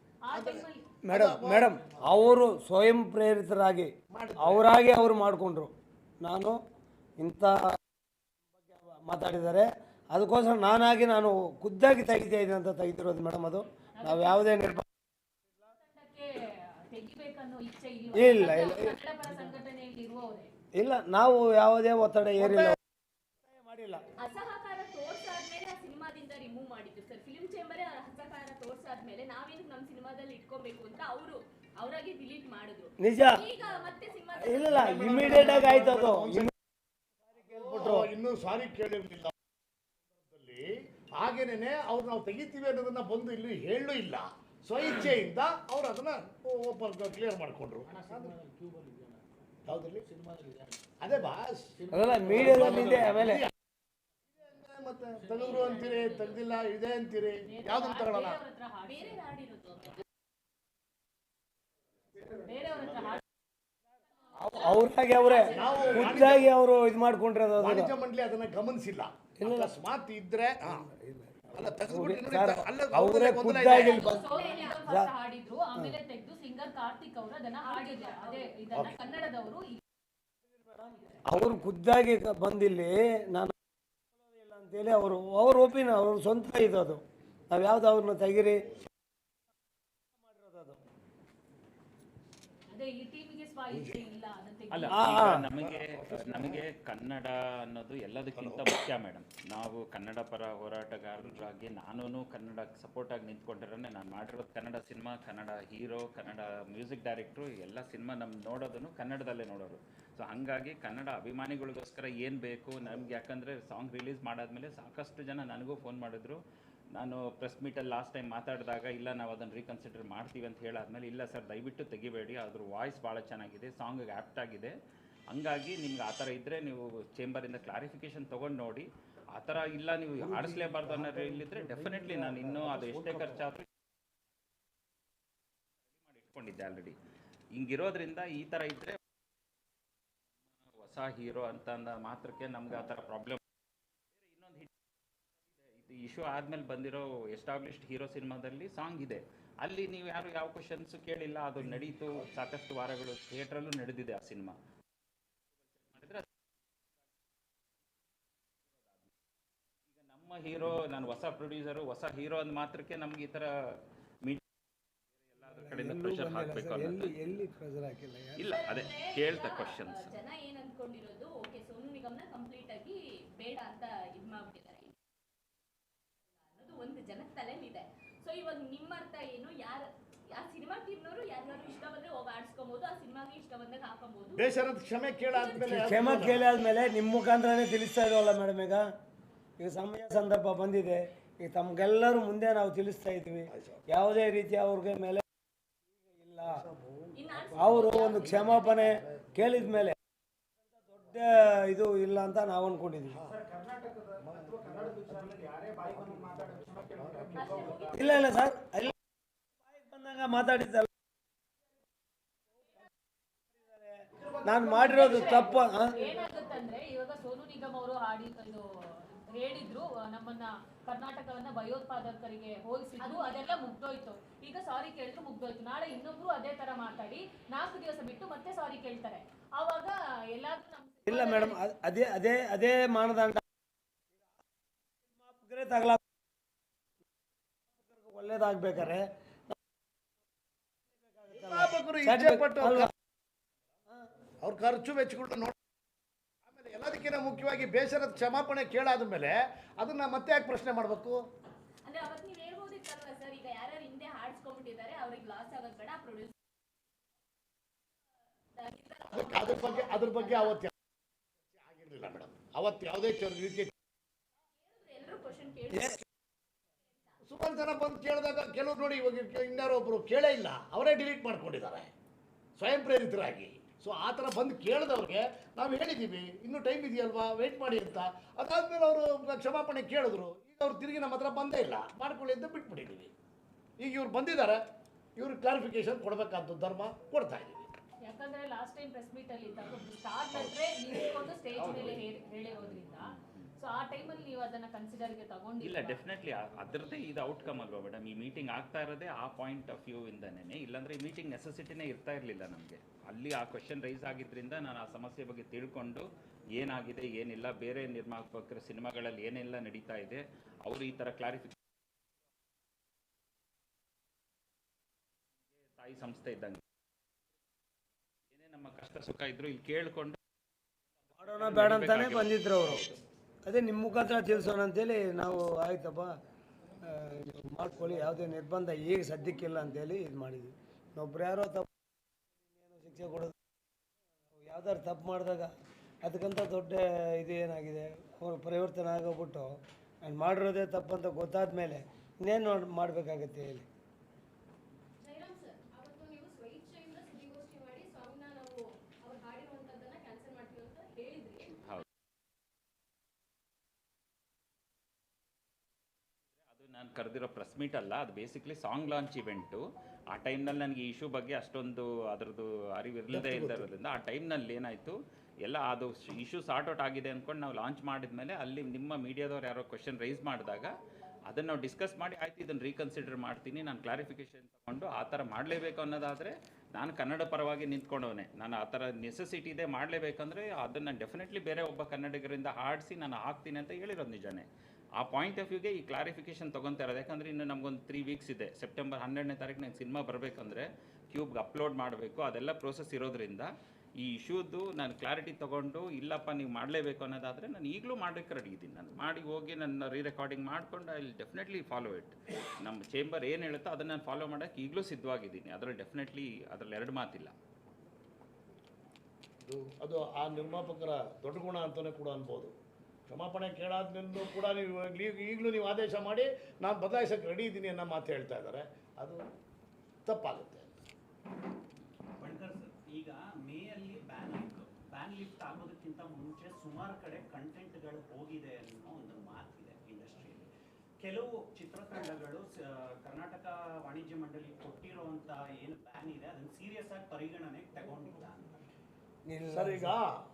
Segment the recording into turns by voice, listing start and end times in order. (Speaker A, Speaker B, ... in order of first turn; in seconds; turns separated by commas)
Speaker A: 0.2-1.0, Speaker B: 0.3-2.3, Speaker C: 1.0-6.6, Speaker B: 4.1-4.7, Speaker C: 7.2-7.6, Speaker C: 8.6-14.8, Speaker A: 14.0-14.5, Speaker A: 15.7-20.5, Speaker C: 18.1-19.0, Speaker C: 20.8-22.8, Speaker B: 22.4-22.8, Speaker C: 23.4-24.0, Speaker D: 24.2-35.0, Speaker C: 33.0-33.4, Speaker C: 34.4-36.5, Speaker B: 34.7-36.5, Speaker C: 37.2-38.1, Speaker B: 37.4-39.3, Speaker B: 40.2-48.4, Speaker B: 49.7-50.1, Speaker B: 51.0-53.5, Speaker C: 51.9-53.5, Speaker B: 54.3-58.4, Speaker D: 55.4-56.4, Speaker A: 57.5-59.2, Speaker D: 58.9-60.0, Speaker A: 62.4-63.2, Speaker C: 64.3-67.9, Speaker D: 64.5-66.3, Speaker B: 65.5-66.5, Speaker B: 67.6-70.8, Speaker C: 69.4-69.7, Speaker C: 70.7-74.3, Speaker B: 71.5-74.2, Speaker D: 73.7-74.8, Speaker A: 73.8-79.8, Speaker C: 74.9-75.1, Speaker D: 77.7-78.5, Speaker C: 80.5-83.5, Speaker C: 84.2-88.6, Speaker C: 90.2-90.8, Speaker A: 92.7-95.0, Speaker B: 93.7-94.0, Speaker E: 94.7-116.4, Speaker C: 94.9-95.5, Speaker B: 95.5-96.6, Speaker B: 98.4-98.6, Speaker E: 117.0-124.7, Speaker E: 125.3-133.7, Speaker E: 136.1-137.0, Speaker E: 137.6-139.0, Speaker E: 140.8-143.4, Speaker E: 144.3-144.7, Speaker E: 145.7-154.6, Speaker E: 155.8-156.3, Speaker E: 160.0-164.4, Speaker E: 165.2-167.3, Speaker C: 165.5-168.5, Speaker E: 168.4-170.1, Speaker D: 168.5-174.9, Speaker D: 176.4-184.5, Speaker B: 184.3-186.4, Speaker D: 185.3-186.4, Speaker C: 185.6-188.8, Speaker C: 189.6-195.2, Speaker B: 193.5-193.8, Speaker C: 196.1-196.6, Speaker B: 196.4-199.0, Speaker D: 197.2-199.0, Speaker C: 197.6-200.0, Speaker C: 200.7-203.2, Speaker B: 203.1-203.4, Speaker B: 204.2-207.8, Speaker D: 207.3-208.4, Speaker C: 207.9-208.9, Speaker C: 209.6-210.9, Speaker C: 213.5-216.0, Speaker A: 214.8-231.6, Speaker D: 223.0-223.7, Speaker C: 231.1-233.4, Speaker C: 235.1-236.0, Speaker C: 237.8-239.5, Speaker C: 240.9-242.9, Speaker B: 241.3-242.9, Speaker B: 244.4-245.5, Speaker B: 246.5-251.2, Speaker D: 251.8-256.3, Speaker D: 258.6-260.6, Speaker B: 259.1-260.7, Speaker B: 261.5-263.7, Speaker D: 264.6-266.0, Speaker C: 265.7-266.0, Speaker D: 266.9-267.2, Speaker B: 267.2-271.9, Speaker B: 272.6-283.1, Speaker B: 283.8-284.6, Speaker B: 285.2-287.7, Speaker A: 288.1-296.0, Speaker E: 291.6-292.0, Speaker E: 295.6-311.6, Speaker E: 315.7-316.6, Speaker E: 318.3-320.2, Speaker C: 321.2-322.8, Speaker E: 321.2-323.0, Speaker C: 323.4-326.1, Speaker C: 326.8-331.7, Speaker C: 332.6-333.3, Speaker C: 334.4-335.5, Speaker C: 336.0-343.7, Speaker F: 345.0-351.6, Speaker E: 356.5-407.3, Speaker B: 363.1-363.7, Speaker B: 409.4-412.5, Speaker B: 413.1-419.2, Speaker B: 420.1-420.7, Speaker G: 422.2-430.5, Speaker G: 431.0-438.6, Speaker C: 439.3-439.9, Speaker B: 439.5-440.1